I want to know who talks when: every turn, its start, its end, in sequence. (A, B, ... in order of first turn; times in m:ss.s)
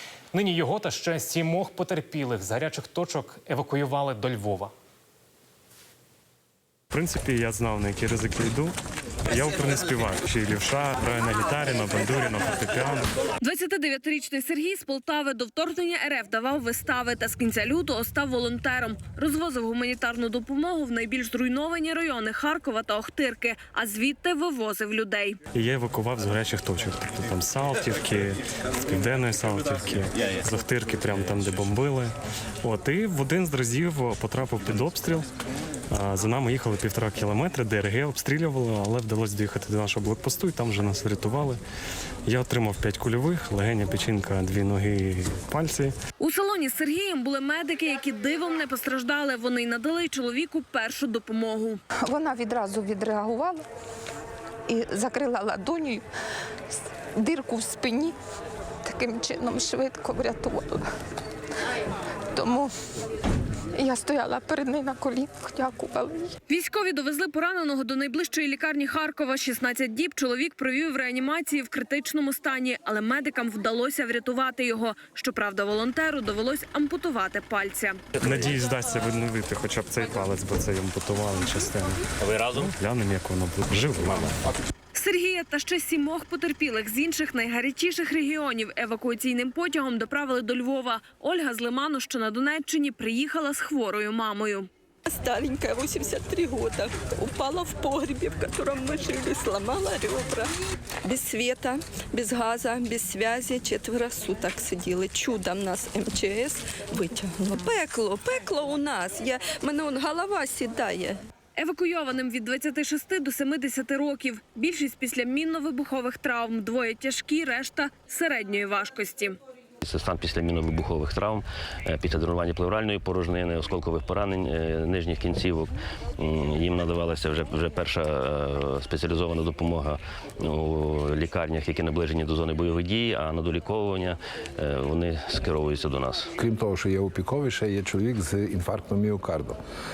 0:00.3-0:04.7 A
0:06.9-0:08.7 B
0:09.3-0:13.1 B
0:13.4-0:25.4 C
0:25.5-0:32.1 B
0:32.6-0:35.3 B
0:35.9-0:41.6 B
0:42.3-0:45.9 B
0:46.2-0:51.8 C
0:52.0-0:53.6 D
0:54.7-0:56.0 D
0:57.2-0:58.1 D
0:58.8-1:00.8 D
1:02.3-1:02.7 D
1:03.8-1:06.3 D
1:06.5-1:18.0 C
1:18.2-1:22.0 B
1:22.2-1:22.6 E
1:22.5-1:24.3 B
1:24.9-1:34.7 C
1:35.0-1:51.2 F
1:51.6-1:59.4 C
1:59.8-2:16.3 E
2:16.4-2:19.6 G